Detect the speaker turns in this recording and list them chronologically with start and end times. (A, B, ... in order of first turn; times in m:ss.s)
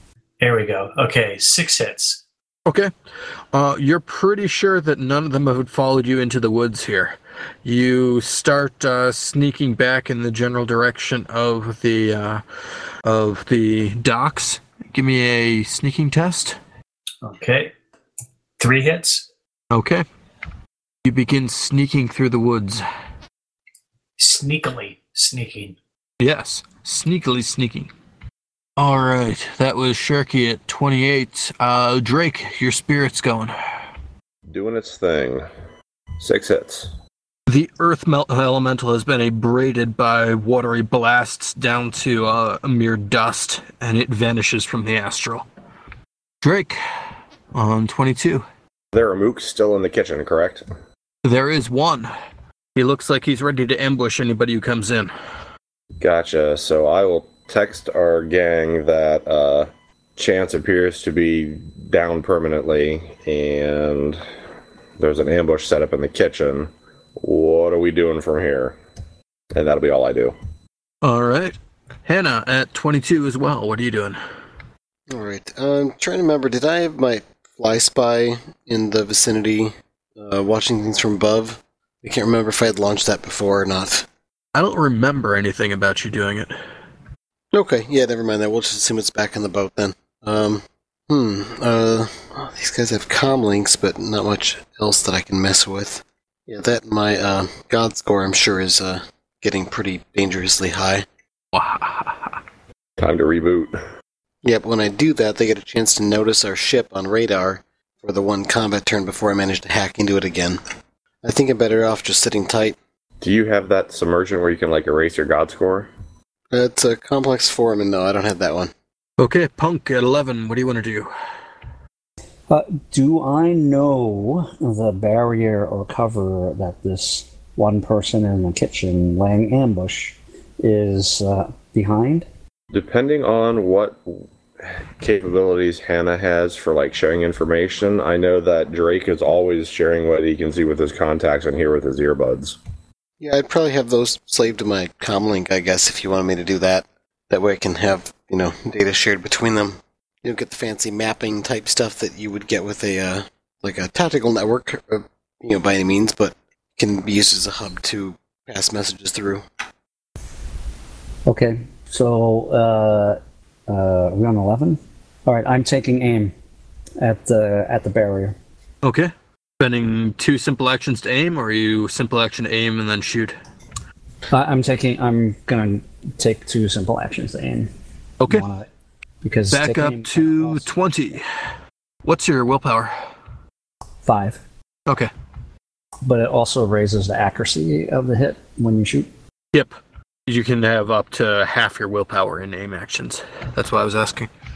0:00.4-0:02.2 A
0:02.6-0:02.9 B
0:03.5-0:12.4 B
0:13.0-0:16.6 B
0:17.2-0:17.7 A
0:18.6-0:19.3 A
0:19.7-0:20.0 B
0:21.0-0:22.8 B
0:24.2-0:25.8 A
0:26.2-0:27.9 B
0:28.8-0:33.5 B
0:34.5-0:35.4 C
0:36.2-0:36.9 C
0:37.5-0:45.4 B
0:46.4-0:46.8 B
0:47.5-0:48.4 B
0:48.9-0:50.6 C
0:51.2-0:52.1 B
0:52.8-0:55.1 B
0:56.0-1:04.2 C
1:05.0-1:08.8 C
1:09.5-1:10.3 C
1:11.0-1:14.2 B
1:15.1-1:24.1 D
1:24.5-1:26.5 B
1:27.5-1:41.0 D
1:41.5-1:42.3 B
1:43.0-1:43.8 C
1:44.4-1:50.6 D
1:51.2-1:52.8 D
1:53.2-1:55.9 C
1:56.5-1:58.7 D
1:59.2-2:01.1 B
2:02.5-2:12.3 E
2:12.7-2:22.6 C
2:23.2-2:39.4 D
2:41.3-2:46.3 E
2:47.0-2:48.4 E
2:48.8-2:53.4 B
2:54.3-2:57.7 E
2:58.2-2:58.4 B
2:58.3-2:58.7 E
2:59.2-3:00.7 E
2:59.5-3:01.2 B
3:02.0-3:02.9 B
3:04.0-3:04.4 E
3:06.0-3:09.1 E
3:09.5-3:14.3 B